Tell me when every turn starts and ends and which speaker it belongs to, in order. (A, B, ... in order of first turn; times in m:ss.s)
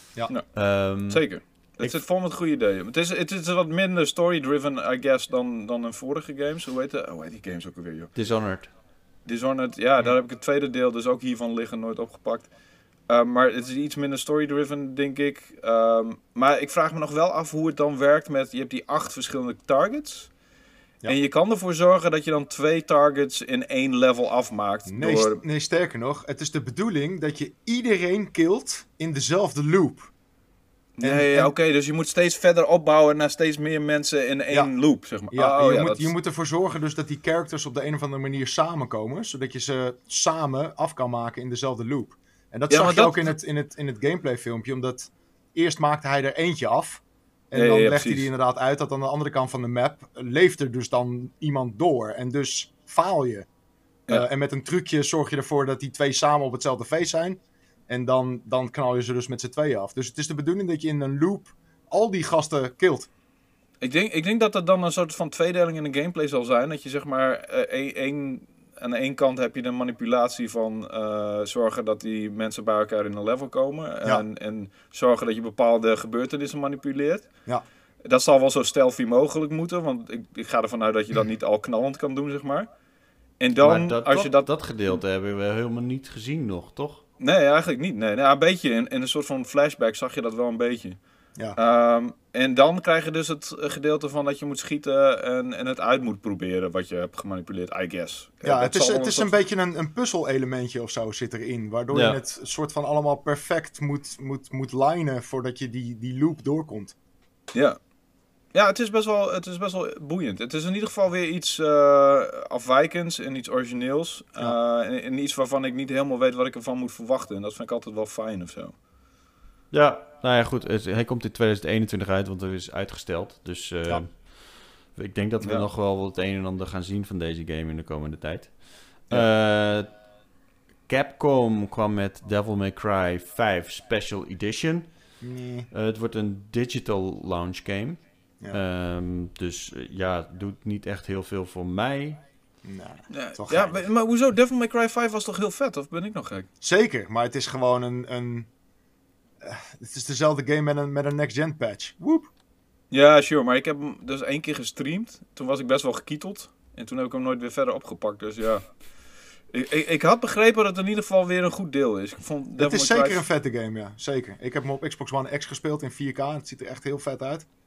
0:00.3-0:00.6 A
0:00.5-0:01.2 B
0:01.1-0:08.1 A
0:08.1-0:08.7 B
0:09.2-0:12.5 A
0:13.1-0:20.3 A
0:21.0-0:25.4 A
0:24.8-0:30.1 C
0:31.0-0:36.1 A
0:31.0-0:31.5 C
0:35.3-0:53.5 C
0:42.7-0:43.3 A
0:47.5-0:48.3 A
0:54.1-1:03.1 C
1:03.8-1:17.3 A
1:18.0-1:22.7 A
1:23.4-1:24.5 A
1:23.6-1:27.0 B
1:27.2-1:31.0 A
1:31.6-1:39.3 A
1:38.4-1:47.0 C
1:41.9-1:42.2 B
1:48.5-1:58.7 A
1:59.7-2:09.9 B
2:05.4-2:05.6 A
2:10.9-2:14.9 B
2:15.2-2:15.7 C
2:15.7-2:18.0 B
2:18.5-2:22.2 B
2:22.6-2:23.8 C
2:23.1-2:26.5 A
2:26.6-2:28.5 C
2:29.4-2:32.3 C
2:32.9-2:38.6 A
2:39.5-2:43.2 A
2:42.6-2:47.4 C